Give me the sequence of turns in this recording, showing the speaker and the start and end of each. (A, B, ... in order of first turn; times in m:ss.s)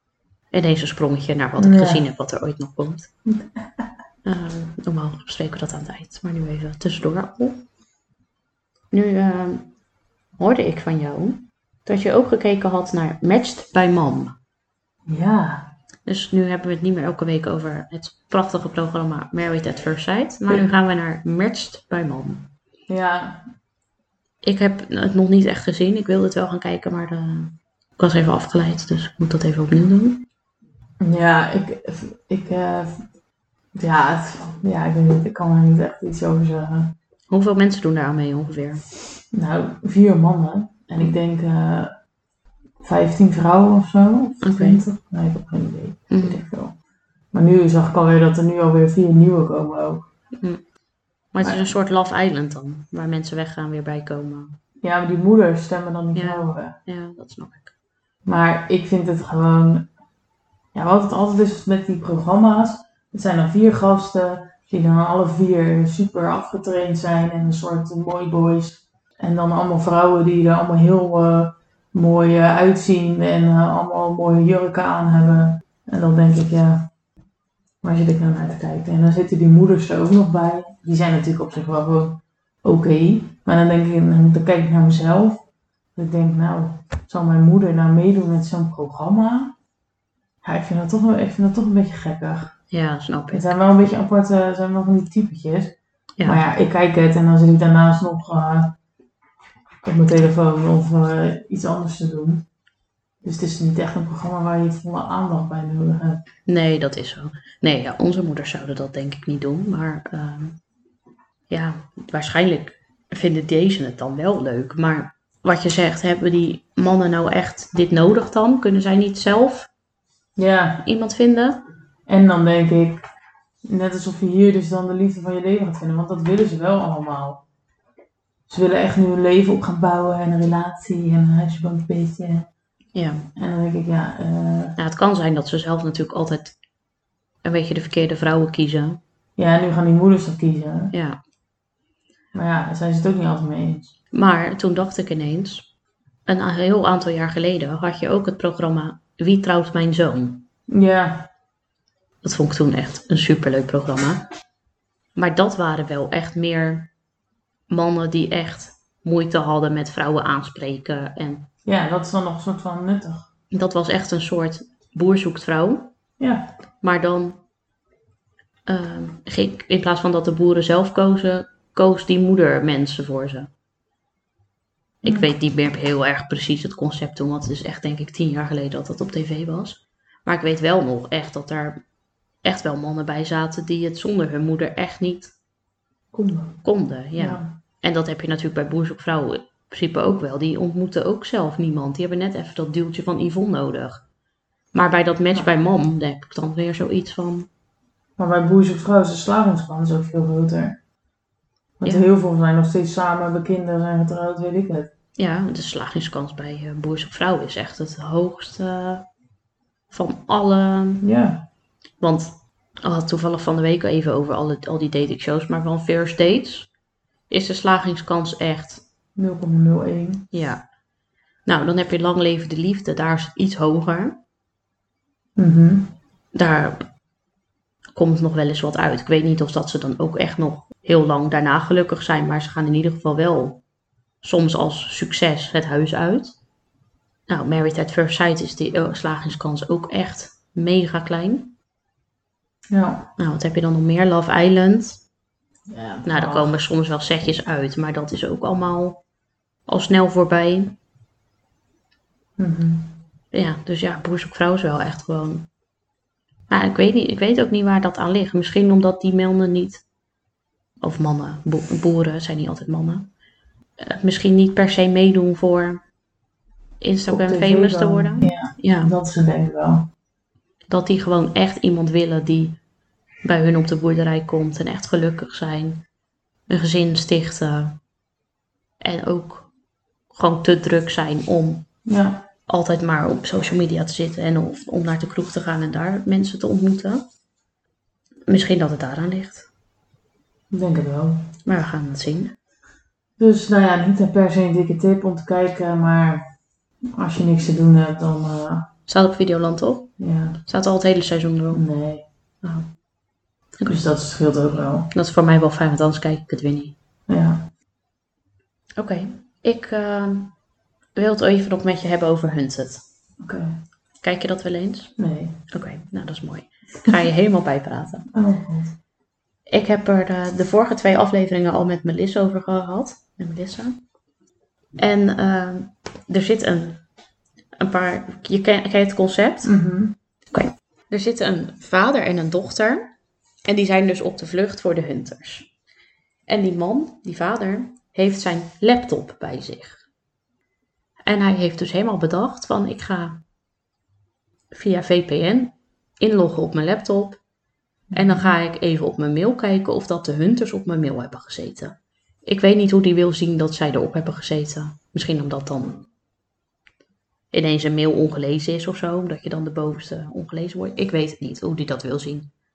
0:00.5-0:03.1 A
0:01.6-0:02.0 B
0:03.3-0:03.9 B
0:04.2-0:07.6 A
0:08.9-0:09.7 A
0:10.4-0:14.3 A
0:15.1-0:15.7 B
0:16.1-0:22.5 A
0:22.9-0:23.4 B
0:24.4-0:30.2 A
0:31.0-0:33.0 B
0:33.8-0:36.9 B
0:37.3-0:38.8 A
0:39.3-0:41.9 B
0:42.8-0:46.8 B
0:44.4-0:44.8 A
0:46.1-0:46.4 A
0:47.3-0:50.1 B
0:51.3-0:54.6 A
0:54.8-0:56.8 B
0:56.2-0:57.7 A
0:58.3-0:59.9 B
1:00.7-1:16.9 B
1:17.8-1:25.4 B
1:26.0-1:29.6 B
1:30.4-1:32.6 B
1:32.7-1:33.5 A
1:33.3-1:38.8 B
1:39.8-1:42.4 B
1:43.2-1:46.2 B
1:46.5-1:50.6 A
1:51.5-1:59.7 A
2:00.4-2:00.8 B
2:00.8-2:01.6 A
2:02.1-2:03.0 B
2:03.6-2:07.4 B
2:08.5-2:12.5 B
2:12.9-2:13.3 A
2:13.4-2:14.8 B
2:14.8-2:16.6 A
2:17.4-2:19.0 A
2:19.4-2:20.9 B
2:20.9-2:21.2 A
2:22.3-2:23.9 B
2:24.1-2:25.7 A
2:26.3-2:30.5 A
2:30.7-2:31.3 B
2:32.2-2:34.2 A
2:35.2-2:36.9 A
2:37.7-2:41.5 A
2:41.6-2:43.3 B
2:43.5-2:45.9 A
2:46.2-2:46.5 B
2:46.8-2:47.4 A
2:48.7-2:53.5 A
2:55.0-3:01.8 A
2:55.0-2:55.3 B
3:02.4-3:05.3 A
3:06.1-3:06.6 B
3:06.6-3:14.0 A
3:07.2-3:07.6 B
3:14.7-3:17.5 A
3:18.2-3:20.8 B
3:21.8-3:24.9 B
3:25.2-3:29.0 A
3:29.9-3:31.0 A
3:31.0-3:31.4 B
3:32.0-3:36.7 A
3:37.3-3:38.8 A
3:39.2-3:40.3 B
3:40.3-3:40.6 A
3:41.5-3:44.2 A
3:45.4-3:45.9 B
3:46.3-3:46.8 A
3:48.0-3:53.6 A
3:54.2-3:56.4 A
3:57.3-4:01.5 A
4:02.7-4:03.1 B
4:03.2-4:05.0 A
4:05.7-4:06.6 B
4:06.0-4:09.0 A
4:09.7-4:10.8 A
4:12.4-4:12.9 B
4:13.3-4:15.5 A
4:16.5-4:19.8 A
4:20.8-4:23.1 A
4:23.8-4:25.8 A
4:26.8-4:28.9 A
4:27.1-4:29.9 B
4:30.7-4:32.6 A
4:33.2-4:35.8 A
4:36.5-4:37.8 A
4:38.8-4:39.5 A
4:40.1-4:41.7 A
4:41.9-4:42.2 B
4:42.5-4:47.0 A
4:48.3-4:49.5 A
4:50.5-4:51.3 B
4:51.5-4:52.3 A
4:53.2-4:56.3 B
4:56.9-4:58.7 B
4:58.9-4:59.9 A
5:00.0-5:00.4 B
5:00.4-5:01.6 A
5:01.5-5:02.0 B
5:03.6-5:03.9 A
5:03.7-5:04.9 B
5:04.9-5:06.8 A
5:07.1-5:07.4 B
5:08.8-5:10.3 A
5:11.0-5:12.8 A
5:13.2-5:13.5 B
5:14.0-5:15.0 A
5:15.0-5:15.4 B
5:15.5-5:18.1 A
5:18.1-5:18.8 B
5:19.5-5:23.8 A
5:24.8-5:26.8 A
5:27.6-5:29.5 A
5:29.4-5:30.0 B
5:30.3-5:32.9 A
5:33.5-5:35.5 A
5:36.3-5:39.8 A
5:41.1-5:43.2 A
5:44.5-5:47.2 A
5:47.9-5:48.3 B
5:47.9-5:55.9 A
5:57.3-6:02.3 A